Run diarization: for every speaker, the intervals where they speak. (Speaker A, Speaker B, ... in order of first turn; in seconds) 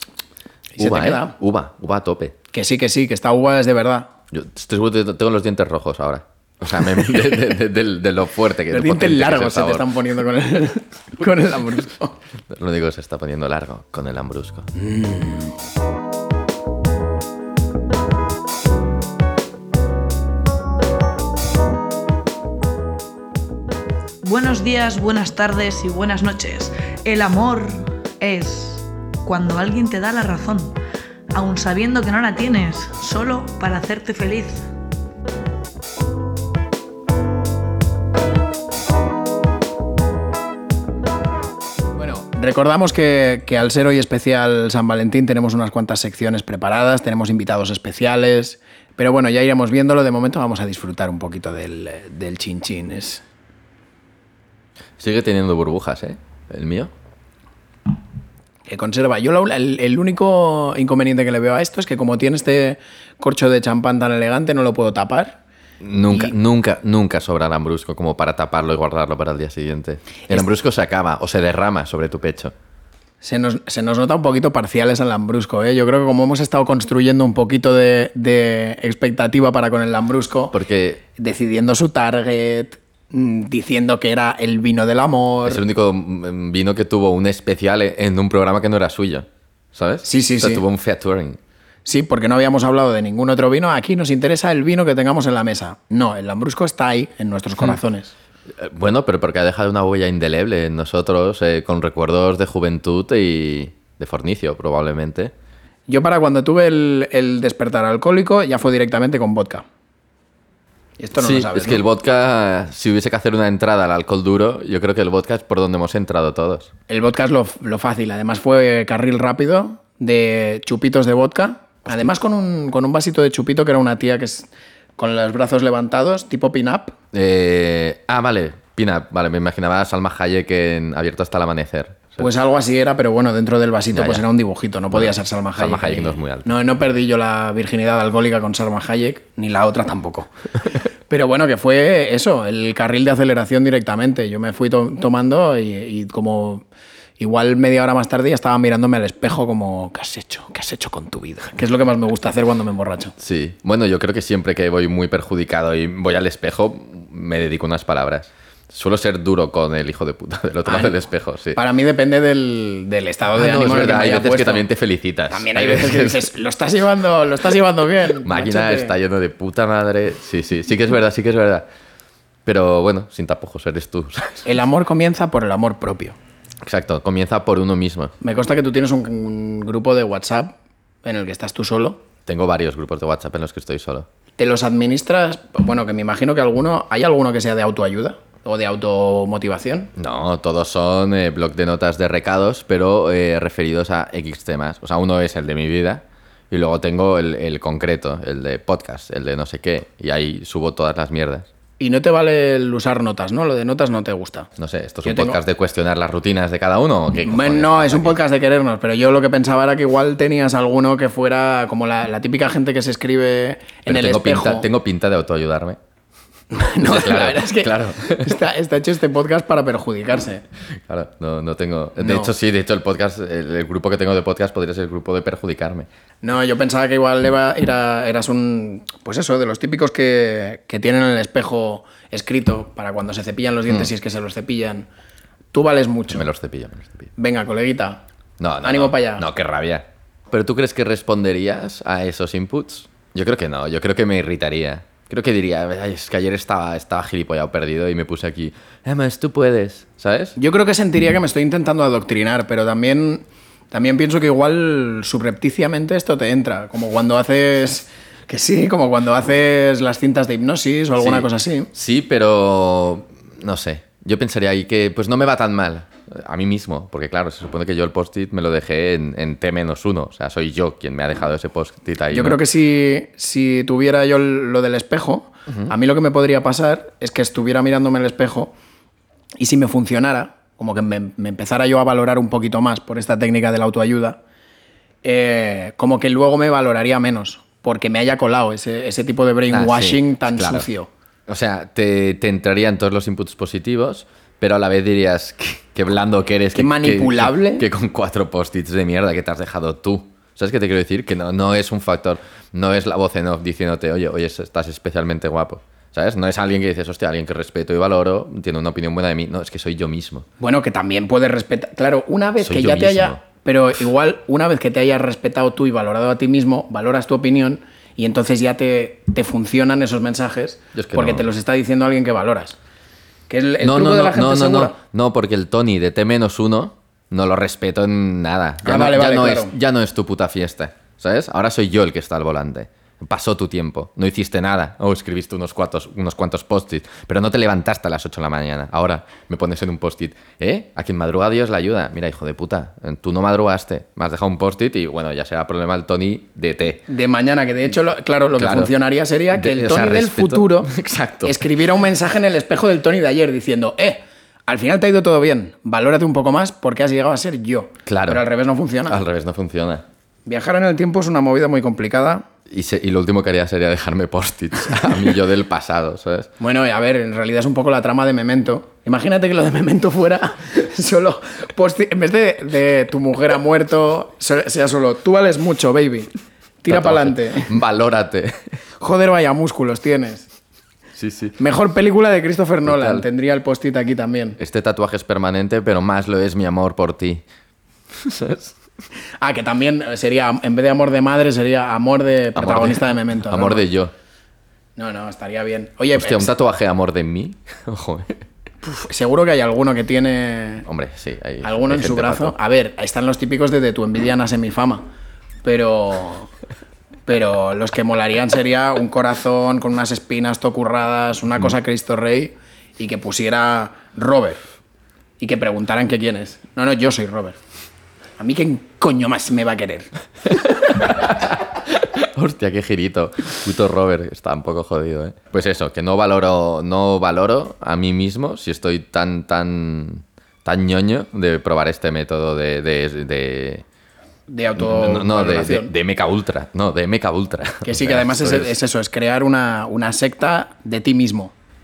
Speaker A: 0.8-1.4, 2.5-4.1, 8.7-12.1, 14.8-15.6, 42.0-53.2, 58.7-65.4, 73.2-80.5, 81.2-85.6, 90.0-90.6, 91.8-98.1, 105.9-109.7, 111.0-111.8, 116.9-127.0, 132.2-140.3, 141.1-146.6, 147.2-153.2, 160.7-161.0, 161.6-164.7, 165.3-168.9, 174.4-176.2, 178.2-182.0, 184.4-189.9, 201.8-204.5, 205.0-205.4, 207.2-214.7, 216.5-220.4, 222.0-222.3, 226.2-234.9, 235.5-236.2, 237.2-238.0, 238.6-239.3, 250.4-261.7, 272.1-278.5, 279.4-284.2, 285.0-290.9, 296.6-297.7, 310.4-322.6, 323.3-324.8, 328.6-329.5, 346.9-350.7, 351.2-359.0, 360.3-362.2, 366.4-376.1, 376.6-377.5, 378.8-380.3, 381.4-384.4, 389.2-393.7, 394.8-396.3, 398.7-400.7, 401.4-404.9, 405.4-406.3, 407.1-414.4, 415.2-417.4, 418.2-419.9, 434.3-435.7, 437.6-441.3
Speaker B: 0.8-2.4, 4.3-9.9, 12.5-14.7, 55.0-56.9, 65.8-72.5, 80.5-81.0, 85.5-91.4, 98.5-105.3, 111.2-116.7, 127.1-132.3, 133.9-134.2, 134.9-136.5, 153.2-161.6, 163.3-166.3, 168.2-171.7, 172.4-174.5, 176.6-178.1, 182.3-184.1, 190.0-201.5, 204.6-208.2, 213.9-215.8, 216.8-218.3, 220.9-225.9, 236.1-237.1, 238.4-250.4, 261.0-272.4, 289.5-290.7, 291.3-310.3, 312.4-313.2, 320.7-321.3, 323.6-346.8, 348.4-348.7, 349.3-351.4, 357.9-358.2, 358.9-359.9, 362.5-366.3, 376.7-378.6, 381.0-381.4, 382.6-383.1, 384.4-387.2, 387.9-388.6, 392.4-393.9, 395.9-398.2, 400.7-402.4, 420.3-433.6, 434.6-438.6
Speaker C: 24.2-30.8, 31.3-34.7